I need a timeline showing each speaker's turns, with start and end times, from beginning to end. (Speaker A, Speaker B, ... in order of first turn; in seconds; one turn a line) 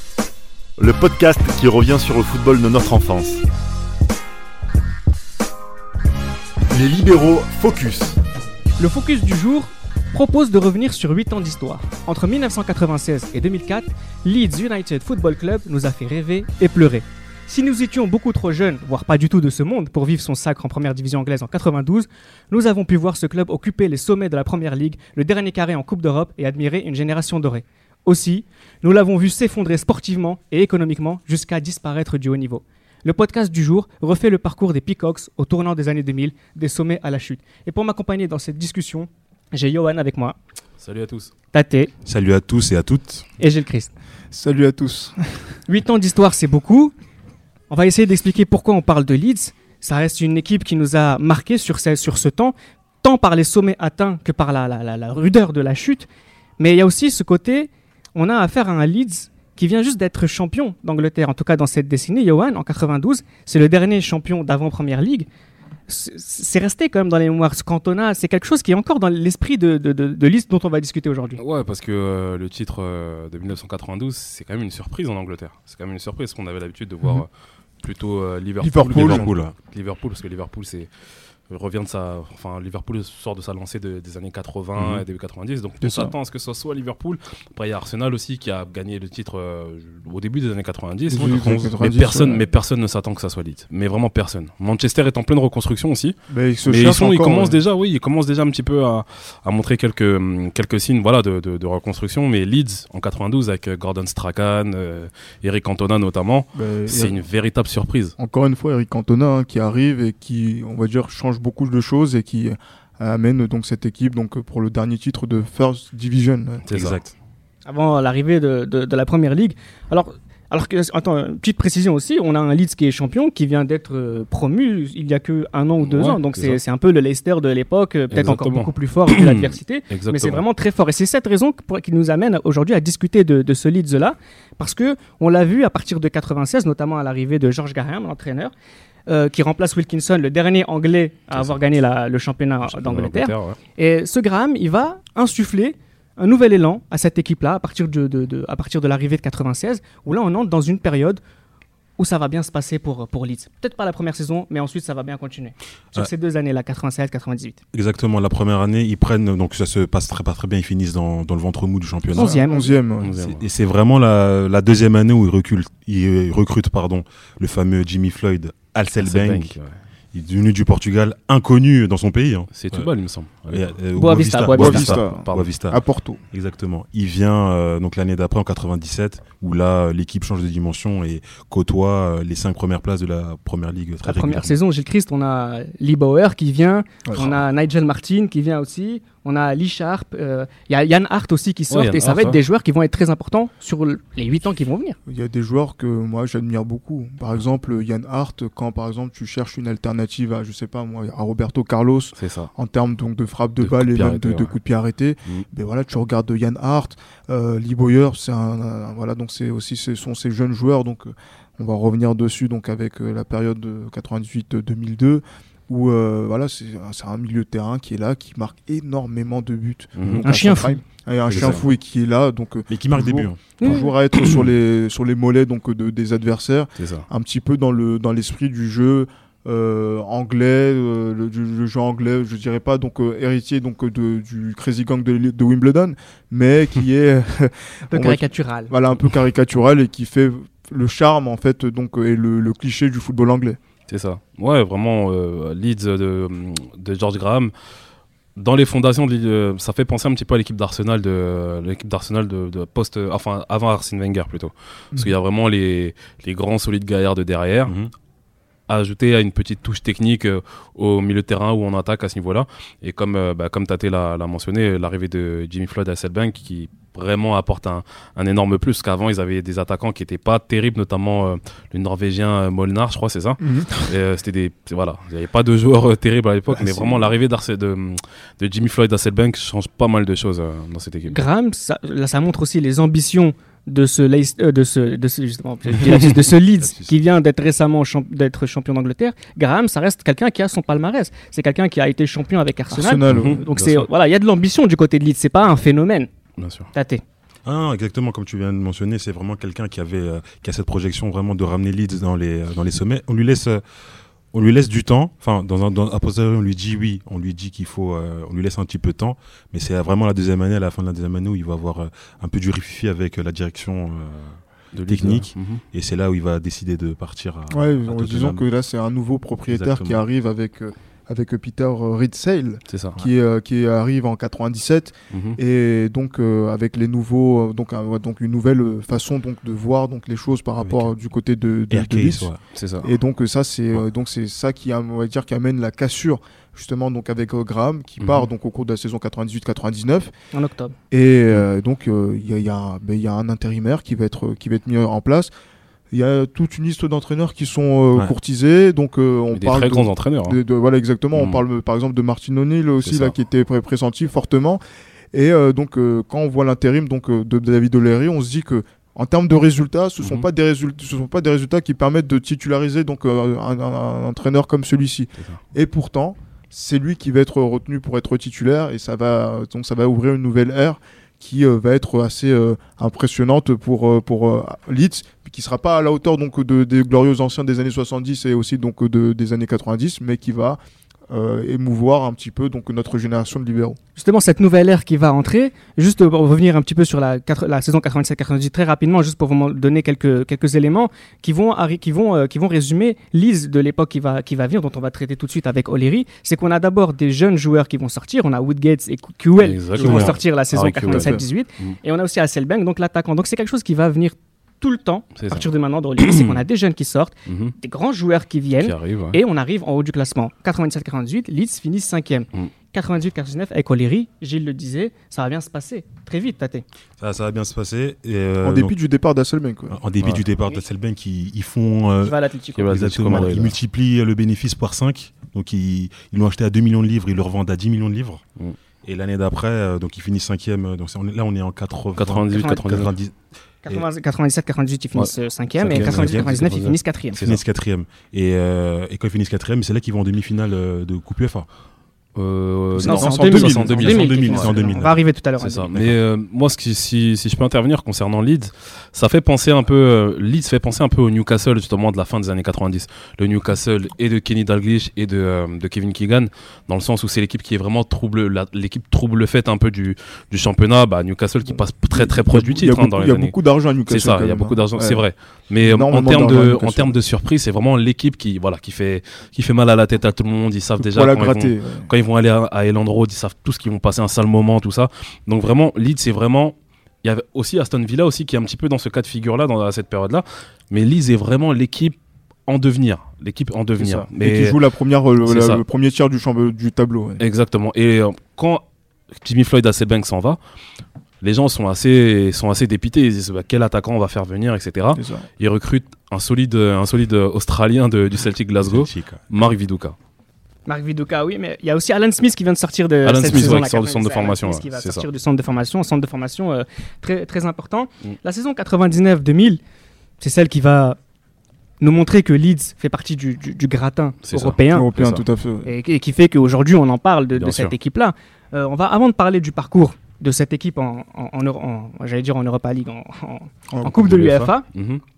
Speaker A: 0.8-3.4
Speaker A: 6.7-8.2
Speaker B: 8.8-40.4
Speaker C: 40.8-41.3
Speaker B: 41.5-41.9
Speaker D: 42.0-43.2
Speaker B: 43.4-43.9
Speaker E: 44.3-45.4
Speaker B: 45.7-46.9
Speaker B: 47.7-56.1
Speaker B: 56.6-65.3
Speaker B: 65.9-71.4
Speaker C: 71.4-77.3
Speaker C: 77.8-80.9
Speaker E: 78.6-79.3
Speaker D: 78.8-79.5
Speaker C: 81.5-108.1
Speaker D: 84.8-85.0
Speaker E: 85.8-86.1
Speaker E: 91.1-92.4
Speaker E: 96.3-97.6
Speaker E: 106.5-107.2
Speaker E: 108.2-116.6
Speaker C: 116.7-117.0
Speaker D: 116.7-117.1
Speaker B: 117.7-138.5
Speaker C: 125.8-126.2
Speaker C: 128.1-130.4
Speaker B: 139.1-151.2
Speaker C: 142.7-143.6
Speaker B: 152.0-157.6
Speaker D: 157.7-162.4
Speaker B: 162.1-162.8
Speaker E: 162.1-163.2
Speaker C: 163.0-163.4
Speaker D: 163.2-169.5
Speaker C: 169.0-169.7
Speaker D: 170.1-172.9
Speaker C: 172.5-173.7
Speaker D: 173.5-175.8
Speaker B: 173.9-175.0
Speaker E: 174.5-176.2
Speaker C: 175.1-175.5
Speaker D: 176.3-184.6
Speaker B: 184.0-195.0
Speaker C: 191.7-192.4
Speaker E: 195.1-243.6
Speaker C: 202.2-202.5
Speaker C: 203.6-204.5
Speaker C: 220.0-220.2
Speaker B: 220.2-220.8
Speaker C: 221.3-221.6
Speaker D: 221.3-221.6
Speaker D: 222.7-223.5
Speaker B: 223.6-223.9
Speaker C: 226.8-227.1
Speaker B: 237.9-238.7
Speaker C: 243.9-247.5
Speaker C: 248.3-257.7
Speaker D: 257.7-257.9
Speaker C: 258.7-281.2
Speaker E: 273.4-273.9
Speaker E: 276.5-277.1
Speaker B: 281.1-296.1
Speaker D: 286.6-286.9
Speaker E: 292.7-293.6
Speaker C: 293.1-293.4
Speaker C: 296.4-296.7
Speaker B: 296.7-297.0
Speaker D: 297.4-303.6
Speaker D: 304.3-318.4
Speaker C: 314.7-315.6
Speaker E: 317.5-340.1
Speaker D: 319.5-320.0
Speaker C: 322.7-323.0
Speaker C: 325.1-325.4
Speaker D: 330.6-330.9
Speaker D: 331.7-332.4
Speaker C: 332.5-332.9
Speaker C: 338.0-338.3
Speaker B: 340.3-340.7
Speaker E: 340.9-345.3
Speaker E: 345.9-354.6
Speaker C: 349.3-350.4
Speaker C: 351.1-351.4
Speaker C: 352.8-353.1
Speaker E: 355.1-380.6
Speaker C: 360.0-360.2
Speaker E: 381.1-383.8
Speaker B: 383.9-416.6
Speaker C: 399.4-401.8
Speaker D: 399.8-400.1
Speaker E: 400.9-401.2
Speaker C: 405.2-405.5
Speaker C: 406.0-406.4
Speaker C: 407.3-407.5
Speaker C: 408.6-409.2
Speaker D: 417.0-418.7
Speaker E: 418.4-419.8
Speaker D: 419.7-428.2
Speaker B: 422.0-423.3
Speaker C: 422.5-423.6
Speaker D: 428.8-433.1
Speaker C: 432.0-432.9
Speaker B: 432.3-432.9
Speaker B: 433.6-437.2
Speaker D: 435.6-436.6
Speaker C: 435.6-437.4
Speaker D: 437.2-441.5
Speaker C: 442.1-444.7
Speaker D: 442.8-445.0
Speaker B: 442.8-445.7
Speaker E: 443.3-443.9
Speaker C: 445.4-463.3
Speaker D: 445.7-446.0
Speaker E: 461.6-465.0
Speaker C: 463.9-481.9
Speaker E: 465.6-467.0
Speaker E: 470.8-471.9
Speaker C: 482.5-484.6
Speaker E: 483.8-487.2
Speaker C: 485.2-485.6
Speaker C: 487.2-488.6
Speaker C: 489.2-490.4
Speaker C: 491.2-499.9
Speaker E: 494.9-495.2
Speaker D: 498.6-499.2
Speaker B: 500.7-509.6
Speaker C: 503.0-505.1
Speaker B: 510.2-511.0
Speaker B: 511.8-514.9
Speaker C: 514.2-515.2
Speaker E: 514.7-515.7
Speaker B: 515.6-524.6
Speaker C: 517.3-517.7
Speaker E: 523.7-524.5
Speaker C: 524.7-525.0